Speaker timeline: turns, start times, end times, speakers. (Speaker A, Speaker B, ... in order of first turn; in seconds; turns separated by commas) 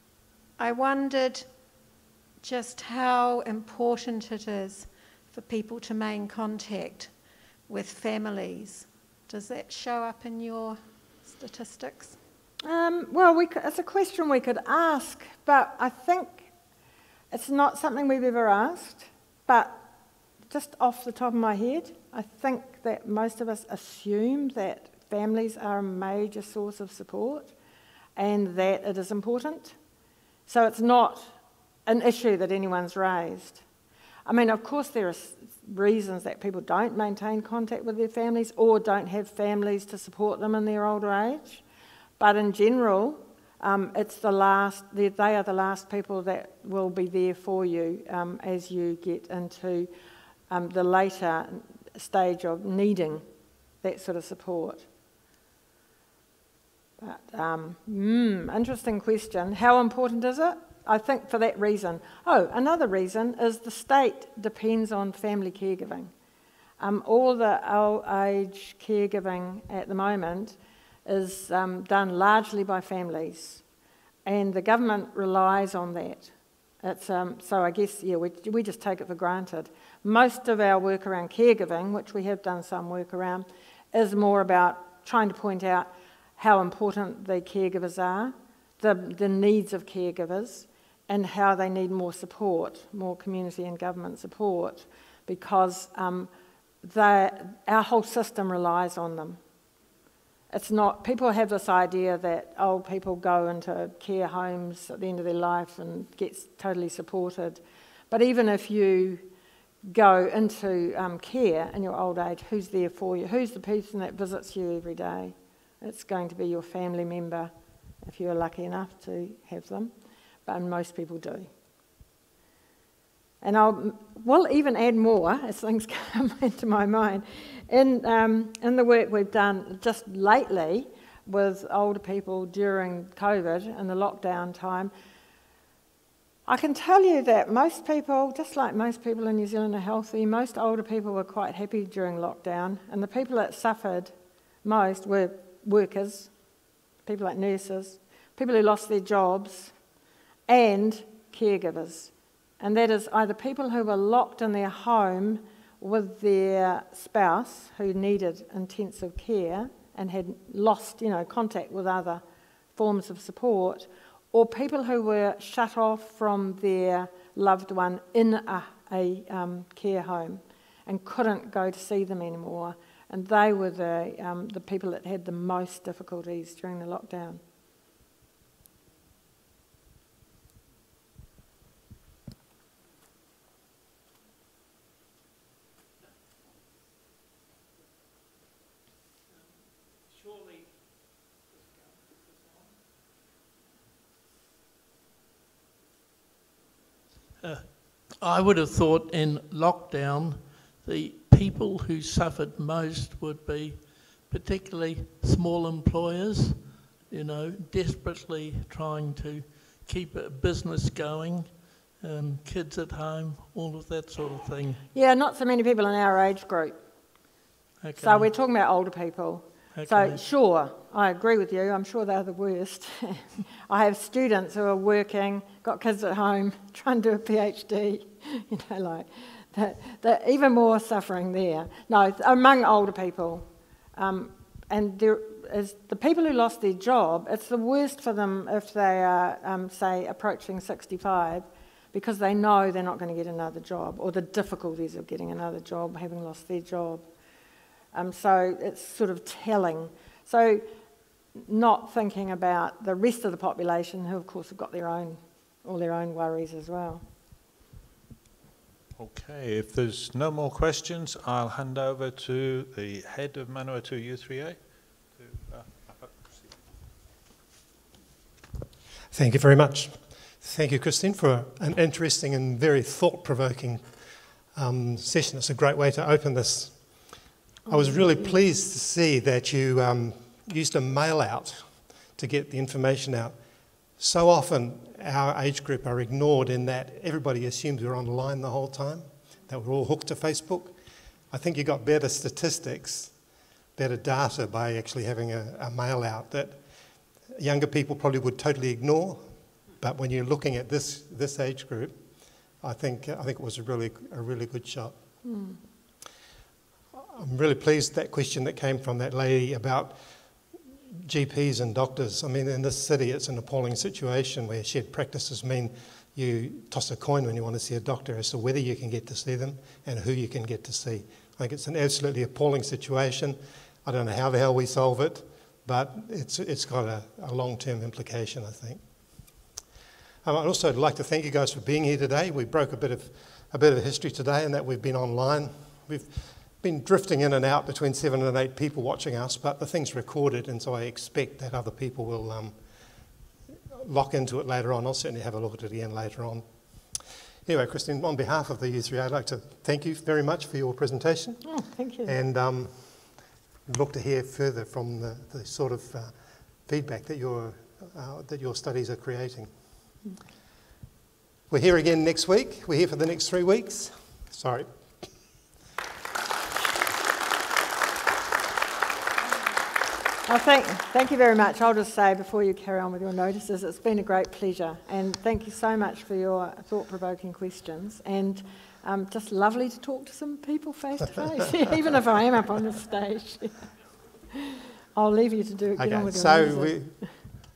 Speaker A: 0.6-1.5, Speaker A: 2.4-7.1, Speaker A: 7.7-12.2, Speaker B: 12.6-16.5, Speaker B: 17.3-19.9, Speaker B: 20.5-27.5, Speaker B: 28.2-29.8, Speaker B: 30.5-31.4, Speaker B: 31.9-33.6, Speaker B: 34.3-41.6, Speaker B: 42.2-49.9, Speaker B: 50.5-53.2, Speaker B: 53.8-54.9, Speaker B: 57.0-66.1, Speaker B: 66.8-73.6, Speaker B: 74.2-96.3, Speaker B: 96.8-99.4, Speaker B: 100.5-109.3, Speaker B: 109.8-119.9, Speaker B: 120.5-121.5, Speaker B: 123.4-134.9, Speaker B: 136.5-144.1, Speaker B: 144.6-146.3, Speaker B: 147.1-149.7, Speaker B: 150.5-162.2, Speaker B: 162.8-177.4, Speaker C: 197.4-214.8, Speaker B: 214.9-216.8, Speaker C: 217.8-218.3, Speaker B: 218.0-247.1, Speaker C: 219.8-220.2, Speaker B: 247.9-250.7, Speaker B: 251.4-257.1, Speaker D: 259.0-266.6, Speaker E: 269.1-305.1, Speaker B: 277.7-278.4, Speaker B: 305.2-305.6, Speaker E: 307.1-329.5, Speaker E: 330.2-342.8, Speaker E: 343.8-359.8, Speaker B: 351.4-352.1, Speaker E: 361.5-365.1, Speaker B: 370.3-383.7, Speaker B: 384.9-387.1, Speaker E: 385.8-387.4